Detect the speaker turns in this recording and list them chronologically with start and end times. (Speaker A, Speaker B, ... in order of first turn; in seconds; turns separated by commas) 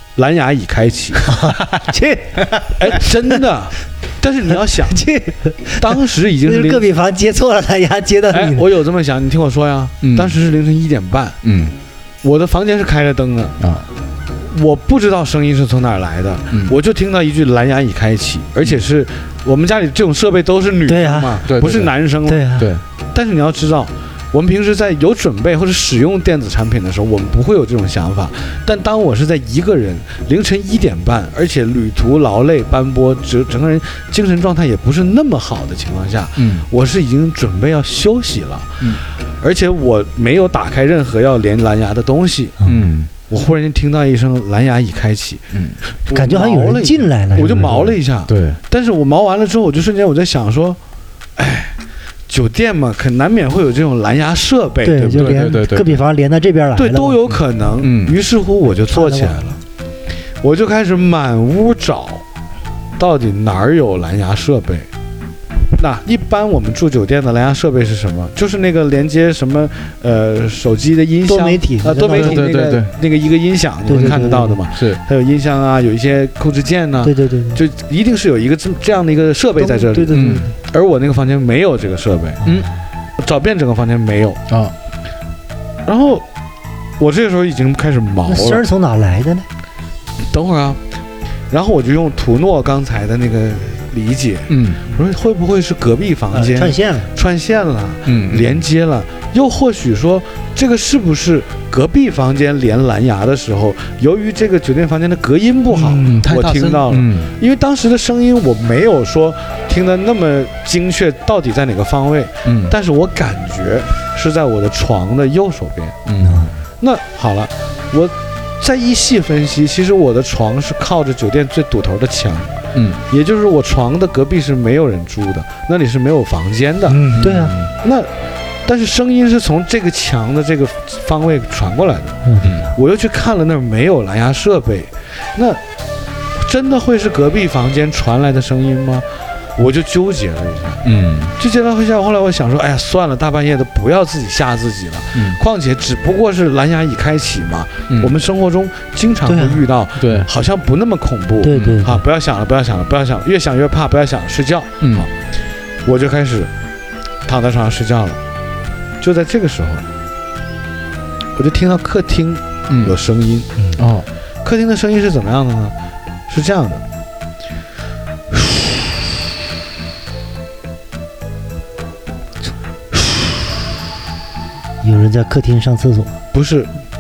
Speaker A: 0.2-1.3, Speaker B: 1.2-3.1, Speaker A: 2.8-5.0, Speaker B: 4.9-8.7, Speaker A: 5.8-6.9, Speaker A: 8.3-11.4, Speaker C: 10.0-10.4, Speaker C: 11.4-11.8, Speaker A: 12.2-13.6, Speaker C: 13.6-13.9, Speaker A: 14.4-22.5, Speaker C: 16.5-16.8, Speaker B: 20.9-21.4, Speaker C: 21.5-21.9, Speaker B: 22.3-22.7, Speaker C: 22.6-22.8, Speaker A: 23.1-42.6, Speaker C: 36.4-36.7, Speaker C: 42.6-43.1, Speaker A: 43.3-45.4, Speaker C: 45.5-45.8, Speaker A: 46.0-50.8, Speaker B: 46.1-48.0, Speaker C: 48.3-48.6, Speaker A: 51.4-51.8, Speaker A: 52.3-55.4, Speaker B: 54.8-57.2, Speaker C: 55.1-56.0, Speaker A: 56.8-59.6, Speaker C: 57.8-58.2, Speaker B: 58.9-59.6, Speaker A: 60.4-62.2, Speaker A: 63.0-64.9, Speaker A: 65.7-82.4, Speaker B: 71.3-72.5, Speaker C: 72.1-72.9, Speaker B: 73.9-74.6, Speaker C: 73.9-75.0, Speaker B: 77.0-77.6, Speaker B: 79.6-80.5, Speaker C: 80.1-80.5, Speaker B: 82.4-82.7, Speaker A: 83.2-84.4, Speaker C: 84.5-84.8, Speaker A: 85.9-86.2, Speaker A: 87.0-88.7, Speaker B: 88.3-89.5, Speaker A: 90.2-90.8, Speaker A: 91.5-116.0, Speaker C: 94.5-94.8, Speaker B: 96.3-97.1, Speaker C: 98.1-98.6, Speaker C: 105.8-107.3, Speaker C: 112.5-112.8, Speaker C: 116.1-116.5, Speaker B: 116.2-116.5, Speaker A: 116.8-122.5, Speaker C: 122.7-123.0, Speaker A: 123.1-127.1, Speaker B: 126.9-127.5, Speaker C: 127.2-127.7, Speaker A: 127.8-128.1, Speaker A: 128.7-135.6, Speaker B: 132.3-132.6, Speaker C: 132.4-132.7, Speaker A: 136.4-139.1, Speaker A: 139.6-140.8, Speaker C: 140.8-141.3, Speaker A: 141.4-155.1, Speaker C: 145.2-145.4, Speaker B: 149.3-149.7, Speaker C: 150.0-150.3, Speaker B: 151.4-152.0, Speaker C: 151.5-151.8, Speaker C: 154.8-155.1, Speaker A: 155.8-156.5, Speaker A: 157.3-158.2, Speaker A: 159.0-159.8, Speaker A: 161.4-163.7, Speaker C: 162.7-163.0, Speaker C: 163.8-164.1, Speaker A: 164.4-165.7, Speaker A: 166.3-166.8, Speaker B: 174.8-176.2, Speaker A: 176.3-176.7